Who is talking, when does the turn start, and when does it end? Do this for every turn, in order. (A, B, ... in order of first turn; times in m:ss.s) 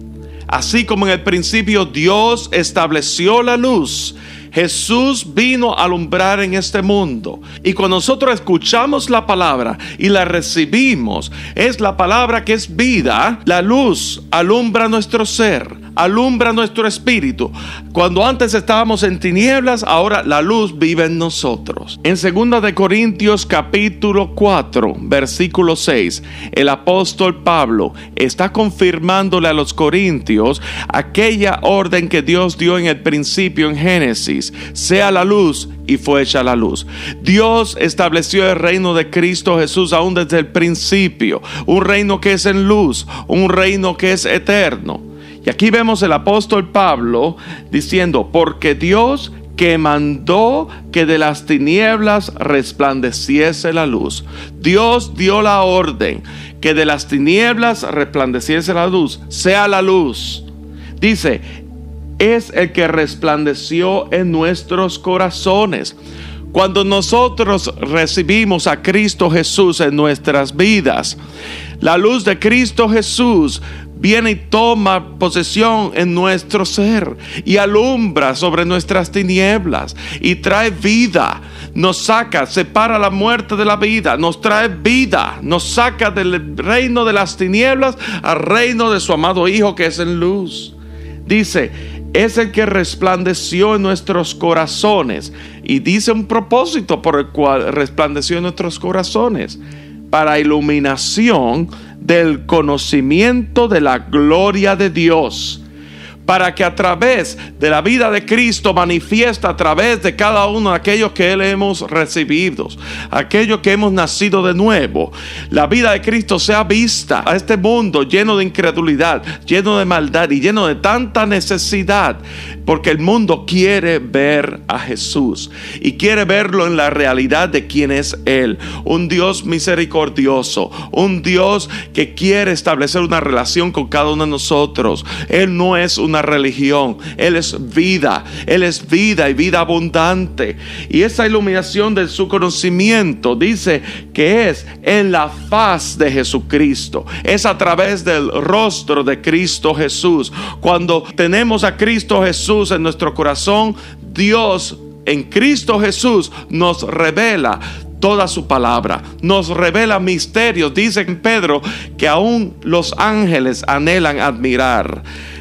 0:00.5-1:00.4 A
1:01.0-1:01.4 A
1:02.2-1:06.0 A
1:06.5-1:11.2 A
1:11.8-1:45.6 A
1:46.2-2:45.0 A